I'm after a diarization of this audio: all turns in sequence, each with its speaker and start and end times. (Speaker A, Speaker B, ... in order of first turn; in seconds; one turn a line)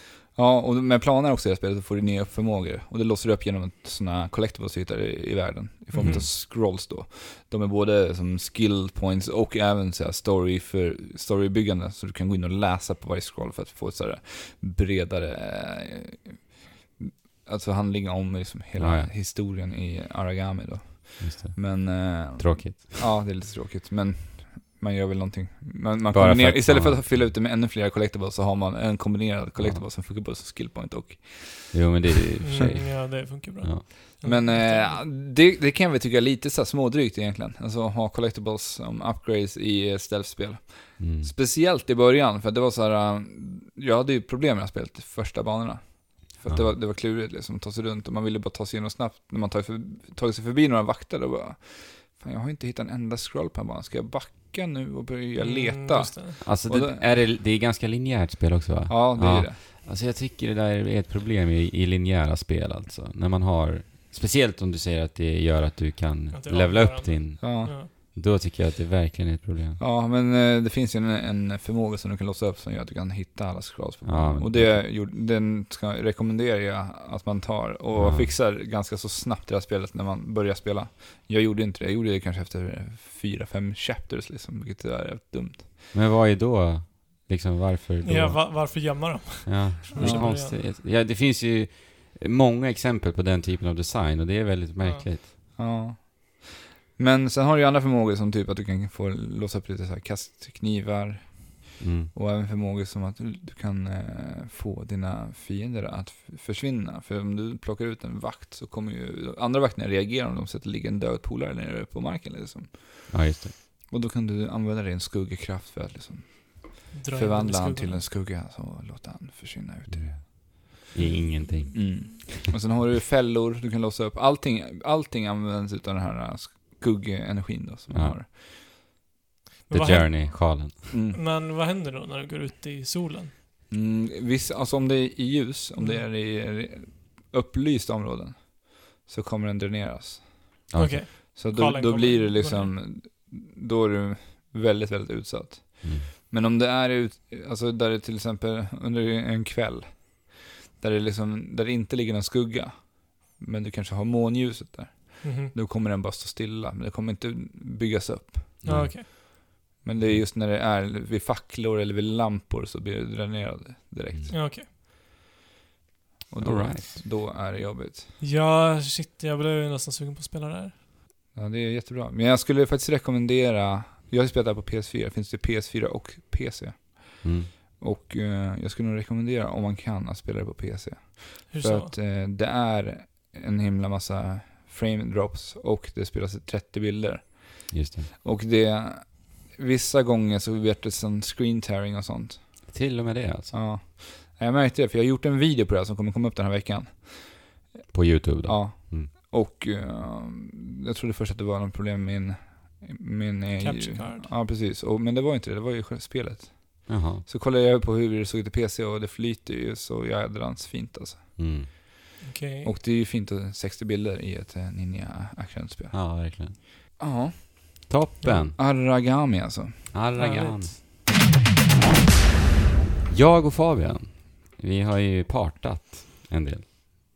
Speaker A: 0.3-32.8
Speaker B: 5.9-6.2
Speaker C: 6.0-6.3
Speaker C: 18.8-19.1
Speaker C: 21.2-23.0
Speaker C: 26.1-27.3
Speaker C: 29.6-29.9
Speaker C: 31.7-33.9
Speaker B: 32.4-35.0
Speaker A: 34.2-57.2
Speaker C: 41.0-41.3
Speaker C: 46.5-46.7
Speaker B: 55.4-56.4
Speaker C: 56.4-69.8
Speaker A: 58.9-59.6
Speaker B: 66.3-67.9
Speaker A: 67.4-67.7
Speaker A: 69.8-85.7
Speaker C: 74.0-74.9
Speaker C: 78.0-78.3
Speaker C: 85.9-95.3
Speaker B: 88.0-90.6
Speaker A: 90.0-90.3
Speaker B: 94.8-95.1
Speaker A: 95.5-113.3
Speaker C: 101.8-102.1
Speaker C: 113.1-113.5
Speaker A: 113.9-120.4
Speaker B: 116.9-118.0
Speaker C: 119.9-122.5
Speaker A: 121.7-128.3
Speaker C: 127.9-128.2
Speaker B: 129.7-133.3
Speaker C: 129.7-130.8
Speaker A: 130.9-131.2
Speaker A: 133.7-140.6
Speaker B: 135.8-136.1
Speaker C: 140.7-141.1
Speaker B: 140.8-142.7
Speaker A: 141.3-159.0
Speaker C: 145.8-146.1
Speaker B: 155.2-155.5
Speaker C: 158.6-158.9
Speaker B: 158.7-159.1
Speaker A: 159.8-164.4
Speaker C: 160.0-160.2
Speaker B: 164.3-164.7
Speaker A: 166.3-168.1
Speaker C: 166.4-167.0
Speaker B: 168.2-170.7
Speaker A: 171.3-192.7
Speaker C: 177.2-177.5
Speaker B: 181.5-181.9
Speaker C: 187.7-188.1
Speaker C: 192.7-193.5
Speaker A: 193.5-197.7
Speaker C: 197.9-199.1
Speaker A: 198.4-211.8
Speaker B: 203.6-204.3
Speaker C: 206.9-207.2
Speaker C: 211.4-211.7
Speaker B: 212.2-212.7
Speaker A: 212.6-216.1
Speaker C: 215.9-216.6
Speaker A: 217.0-217.9
Speaker C: 217.9-218.6
Speaker B: 218.2-218.5
Speaker A: 218.6-219.9
Speaker C: 219.9-220.8
Speaker B: 220.2-220.8
Speaker C: 223.1-226.7